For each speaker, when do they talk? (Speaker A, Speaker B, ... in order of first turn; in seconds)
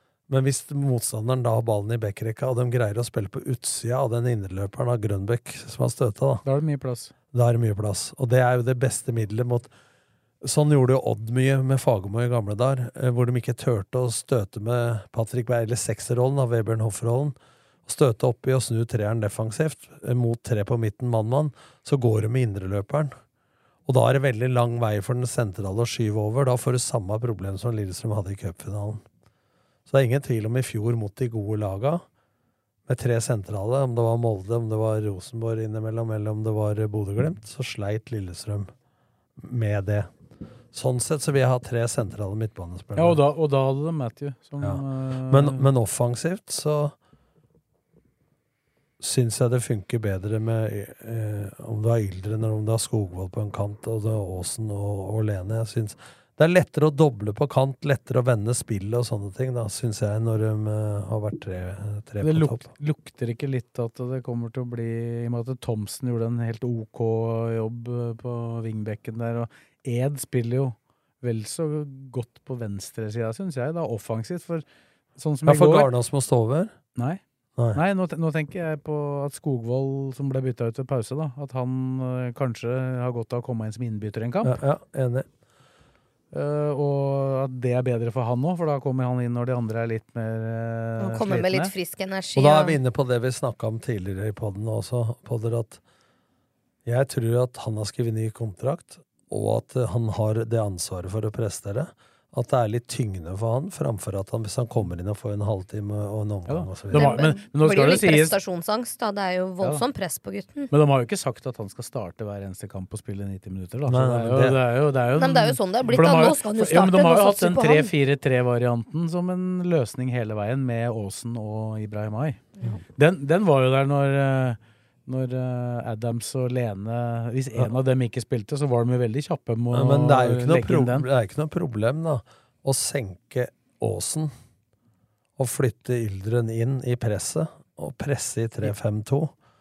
Speaker A: 0.3-6.4, 7.3-9.7, 10.4-23.1, 23.9-29.0, 29.9-32.0, 32.9-38.7, 39.4-40.1, 40.7-43.2, 44.6-46.9, 49.0-62.7, 75.4-76.7, 84.4-85.2, 92.3-95.8, 96.8-107.2, 113.9-114.6, 129.7-134.3, 135.4-139.3
Speaker B: 6.4-7.1, 43.0-45.6, 62.2-74.6, 75.2-75.9, 77.0-77.2, 77.7-84.6, 86.3-91.7, 106.5-108.4, 110.7-122.4, 123.0-131.1
Speaker C: 91.0-92.8, 106.9-110.7, 115.1-117.9